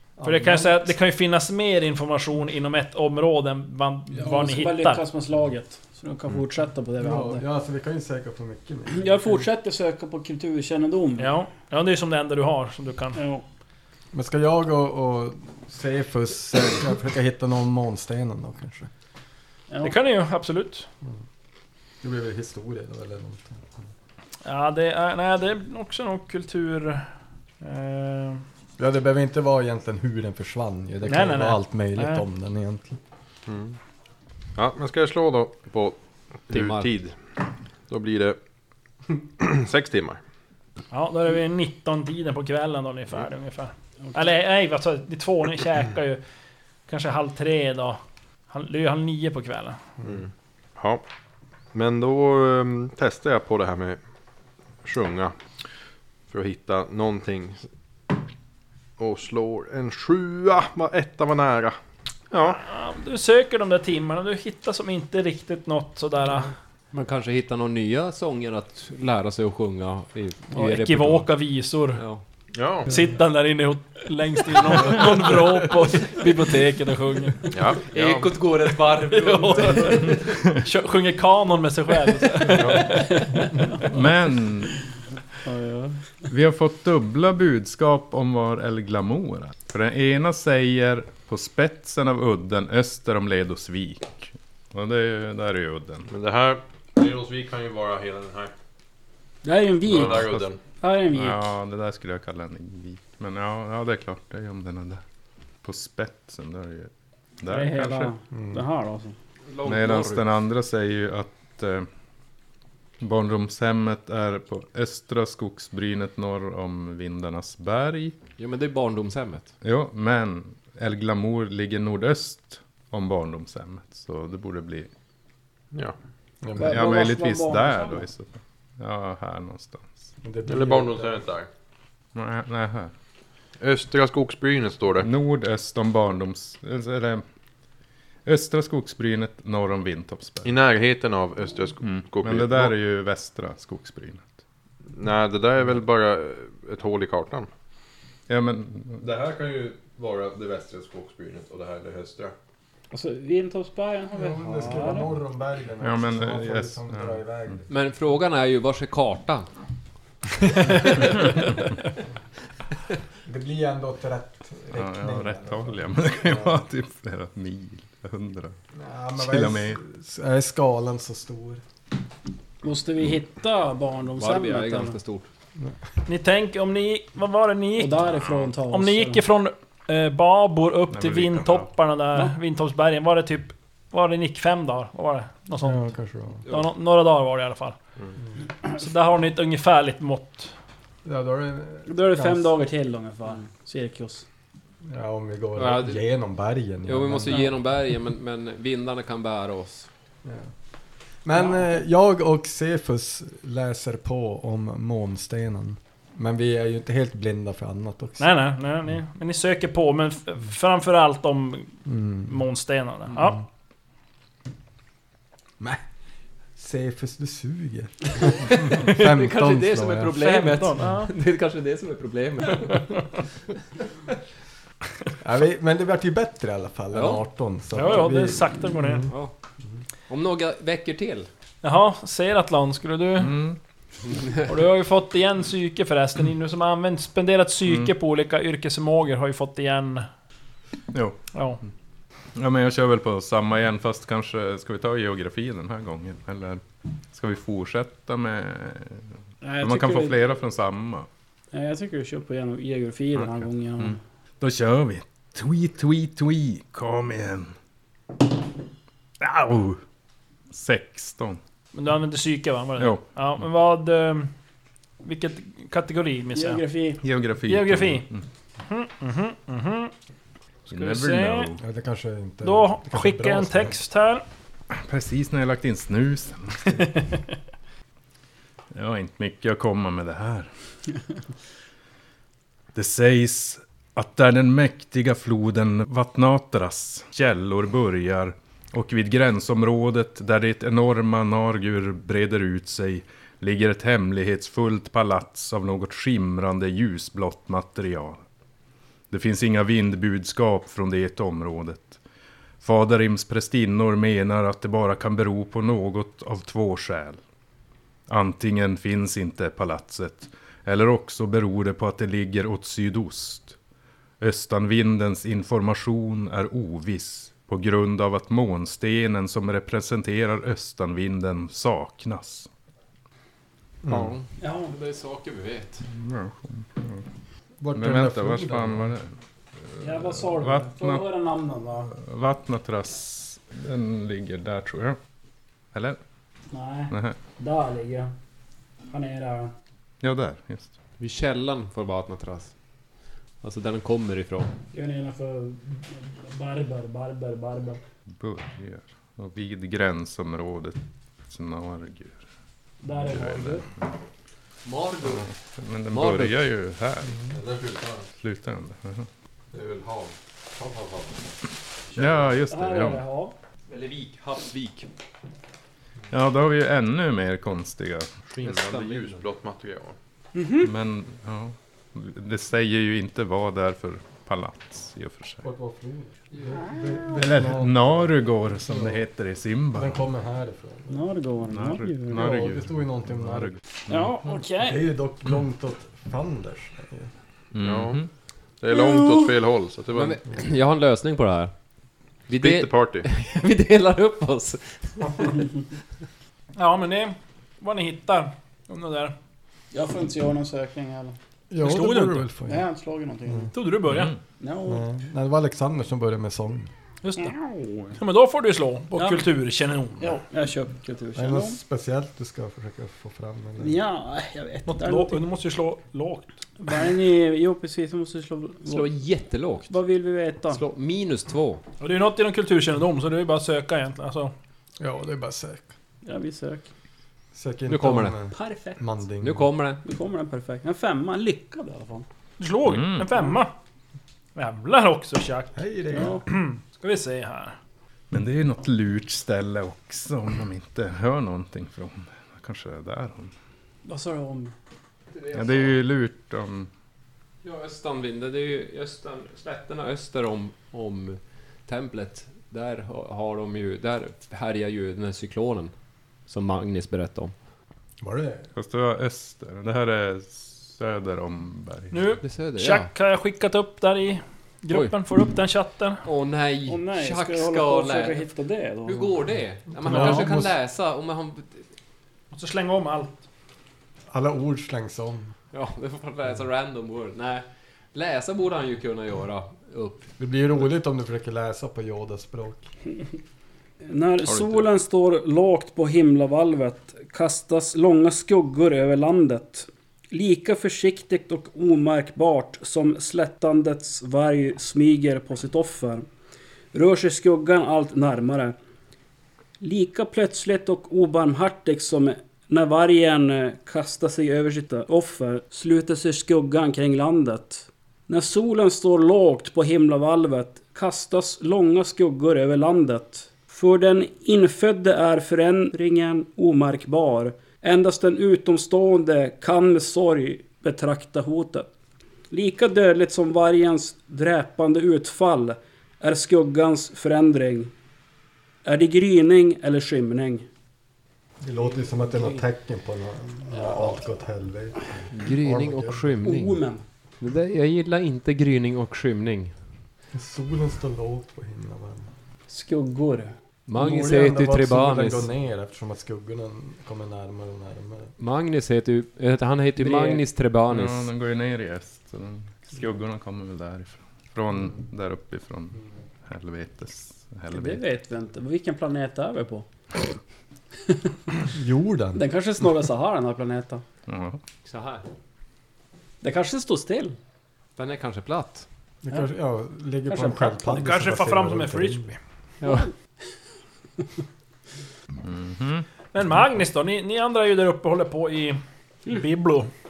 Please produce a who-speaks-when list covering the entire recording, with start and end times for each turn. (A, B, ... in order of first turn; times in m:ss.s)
0:00.2-0:00.9 A
0:00.2-0:05.0 B
0:04.1-0:07.4 C
0:07.0-0:09.4 A
0:08.9-0:11.3 C
0:11.2-0:13.2 B
0:13.1-0:13.4 C
0:14.1-0:18.9 A
0:19.7-0:20.0 C
0:19.8-0:20.9 B
0:22.0-0:23.8 A
0:24.4-0:27.1 B
0:27.6-0:28.4 B
0:28.8-0:33.0 A
0:31.0-0:32.2 B
0:33.5-0:33.8 D
0:34.5-0:36.0 D
0:36.5-0:37.2 D
0:36.5-0:36.9 E
0:37.9-0:38.4 D
0:39.4-0:40.2 D
0:40.9-0:46.2 B
0:46.9-0:49.8 B
0:50.0-0:51.0 D
0:51.7-0:54.0 D
0:54.8-0:55.3 D
0:56.3-0:57.6 D
0:59.0-1:01.8 D
1:02.3-1:02.6 D
1:02.4-1:06.5 B
1:06.9-1:11.3 E
1:10.5-1:12.0 B
1:12.0-1:12.2 E
1:12.5-1:12.9 D
1:12.8-1:17.6 B
1:17.5-1:18.4 D
1:17.9-1:20.3 E
1:18.9-1:23.5 B
1:22.6-1:23.0 D
1:23.8-1:24.8 F
1:25.4-1:26.0 C
1:26.3-1:36.1 F
1:36.1-1:38.5 D
1:39.4-1:41.4 C
1:39.9-1:40.6 D
1:39.9-1:40.4 F
1:41.1-1:45.0 F
1:45.6-1:46.9 F
1:47.4-1:48.1 F
1:47.5-1:49.1 C
1:48.3-1:48.6 A
1:49.5-1:50.2 E
1:49.6-1:51.9 F
1:53.0-1:58.1 F
1:58.4-1:59.5 E
1:59.6-2:04.9 F
2:06.4-2:06.9 A
2:06.6-2:08.0 C
2:06.6-2:10.1 F
2:10.2-2:11.2 A
2:10.5-2:11.5 D
2:12.1-2:12.9 F
2:13.6-2:15.1 D
2:15.0-2:17.2 F
2:18.2-2:20.5 F
2:20.4-2:22.7 D
2:21.8-2:24.3 F
2:24.9-2:27.5 D
2:28.3-2:29.0 F
2:29.0-2:32.3 D
2:32.9-2:35.1 C
2:34.1-2:37.7 A
2:35.8-2:37.2 F
2:37.7-2:39.5 E
2:43.2-2:46.6 A
2:44.7-2:48.6 F
2:48.7-2:51.6 A
2:49.2-2:49.8 F
2:52.6-2:55.0 C
2:54.2-2:55.3 E
2:56.0-2:58.0 B
2:57.8-2:59.2 C
2:58.7-3:05.8 B
3:00.9-3:01.7 F
3:05.6-3:06.4 A
3:06.5-3:07.8 B
3:08.7-3:10.5 B
3:11.0-3:12.5 A
3:11.9-3:14.2 C
3:14.8-3:17.4 A
3:15.6-3:16.0 E
3:16.8-3:19.9 E
3:20.2-3:20.5 A
3:21.2-3:28.3 A
3:21.4-3:21.8 C
3:28.2-3:33.4 B
3:31.9-3:32.3 A
3:36.6-3:40.1 A
3:38.8-3:43.0 E
3:40.1-3:41.1 B
3:42.7-3:43.0 B
3:45.2-3:49.1 A
3:46.9-3:47.2 E
3:47.7-3:49.1 B
3:49.1-3:49.3 E
3:50.1-3:51.3 E
3:51.6-3:53.4 B
3:53.2-3:53.6 F
3:54.4-4:00.1 B
4:00.9-4:01.2 F
4:01.3-4:01.6 B
4:02.3-4:11.1 F
4:09.4-4:10.2 C
4:11.5-4:14.0 C
4:13.2-4:17.5 F
4:19.2-4:19.8 F
4:20.5-4:21.4 F
4:21.7-4:24.3 B
4:22.8-4:23.0 F
4:25.0-4:26.6 B
4:26.3-4:27.0 C
4:27.0-4:28.2 F
4:27.4-4:28.0 B
4:28.6-4:29.9 B
4:30.7-4:31.5 B
4:30.7-4:31.6 F
4:31.6-4:33.8 A
4:32.4-4:34.2 B
4:34.7-4:36.8 F
4:36.7-4:37.2 B
4:38.7-4:40.5 F
4:42.7-4:58.2 F
4:59.1-5:02.0 F
5:02.6-5:07.2 F
5:08.1-5:13.6 F
5:14.2-5:22.5 F
5:23.8-5:24.1 A
5:23.9-5:25.8 E
5:24.4-5:24.7 C
5:25.9-5:27.0 F
5:27.6-5:29.0 A
5:27.7-5:29.1 F
5:29.6-5:31.0 F
5:29.8-5:31.9 C
5:31.9-5:35.0 F
5:35.7-5:36.0 F
5:36.5-5:38.1 C
5:36.9-5:37.2 F
5:38.9-5:39.5 C
5:40.0-5:40.7 F
5:41.0-5:42.5 E
5:43.4-5:44.5 E
5:44.7-5:47.8 C
5:48.1-5:52.2 F
5:52.8-5:53.6 C
5:52.9-5:53.8 F
5:54.6-5:55.3 E
5:55.0-5:57.3 F
5:55.9-5:56.4 E
5:57.3-5:58.1 D
5:58.2-5:59.1 F
5:59.5-6:01.3 D
6:01.9-6:02.4 D
6:01.9-6:03.0 F
6:02.5-6:03.3 C
6:03.7-6:04.9 E
6:06.1-6:08.1 F
6:08.3-6:10.0 D
6:08.4-6:09.2 E
6:10.3-6:10.7 C
6:10.6-6:15.4 F
6:15.4-6:19.0 A
6:17.2-6:20.0 F
6:19.7-6:21.0 A
6:20.9-6:22.3 C
6:21.5-6:24.4 F
6:22.1-6:23.6 A
6:23.9-6:24.8 C
6:24.6-6:27.1 A
6:27.5-6:28.1 F
6:27.6-6:28.0 D
6:28.6-6:30.2 D
6:28.7-6:29.2 C
6:29.9-6:31.5 E
6:32.3-6:35.4 E
6:32.3-6:33.1 D
6:36.6-6:39.1 B
6:39.7-6:41.2 C
6:41.5-6:42.6 A
6:41.6-6:42.3 B
6:42.5-6:43.5 C
6:43.5-6:44.2 B
6:43.9-6:44.2 F
6:44.4-6:44.9 C
6:44.6-6:46.7 A
6:47.0-6:47.4 B
6:47.2-6:47.9 C
6:47.9-6:50.1 B
6:48.9-6:49.2 C
6:50.0-6:51.6 C
6:51.1-6:53.8 A
6:53.6-6:55.2 C
6:54.7-6:56.4 B
6:56.6-6:58.9 C
6:58.6-6:59.7 E
6:59.7-7:00.6 C
7:00.5-7:01.6 E
7:01.8-7:04.3 B
7:04.8-7:05.7 A
7:06.0-7:06.6 C
7:07.3-7:09.5 A
7:07.7-7:08.1 E
7:08.3-7:08.8 C
7:09.2-7:09.8 E
7:09.8-7:12.0 C
7:12.4-7:13.5 B
7:12.6-7:13.1 F
7:14.3-7:17.6 B
7:15.5-7:16.2 A
7:15.9-7:16.2 C
7:18.1-7:23.3 F
7:23.8-7:24.5 C
7:25.1-7:25.8 E
7:25.3-7:26.7 F
7:27.4-7:35.7 E
7:36.3-7:37.3 E
7:38.0-7:38.5 A
7:38.6-7:42.0 F
7:41.9-7:46.0 B
7:42.2-7:42.9 E
7:46.0-7:48.2 E
7:46.7-7:49.2 C
7:48.8-7:51.6 E
7:49.8-7:50.5 A
7:52.3-7:53.2 B
7:54.1-7:55.3 A
7:55.5-8:00.1 E
8:00.2-8:02.7 A
8:03.8-8:16.0 C
8:16.7-8:18.5 C
8:19.6-8:41.7 C
8:42.3-8:47.7 C
8:48.6-8:50.5 C
8:51.4-8:56.2 A
8:52.1-8:52.4 C
8:53.5-8:54.0 C
8:55.1-8:56.6 E
8:56.2-8:56.8 C
8:57.2-8:59.5 E
9:00.1-9:02.1 A
9:02.5-9:03.3 C
9:03.7-9:05.3 E
9:03.7-9:08.1 A
9:08.2-9:11.1 E
9:09.8-9:10.2 C
9:10.7-9:17.8 F
9:17.5-9:19.6 C
9:21.5-9:22.2 A
9:22.1-9:23.8 C
9:24.1-9:24.4 F
9:24.6-9:25.0 E
9:26.2-9:27.1 C
9:27.8-9:28.6 E
9:29.0-9:32.1 A
9:30.1-9:30.5 C
9:30.5-9:32.2 B
9:32.6-9:32.9 E
9:35.2-9:35.9 F
9:36.1-9:39.7 B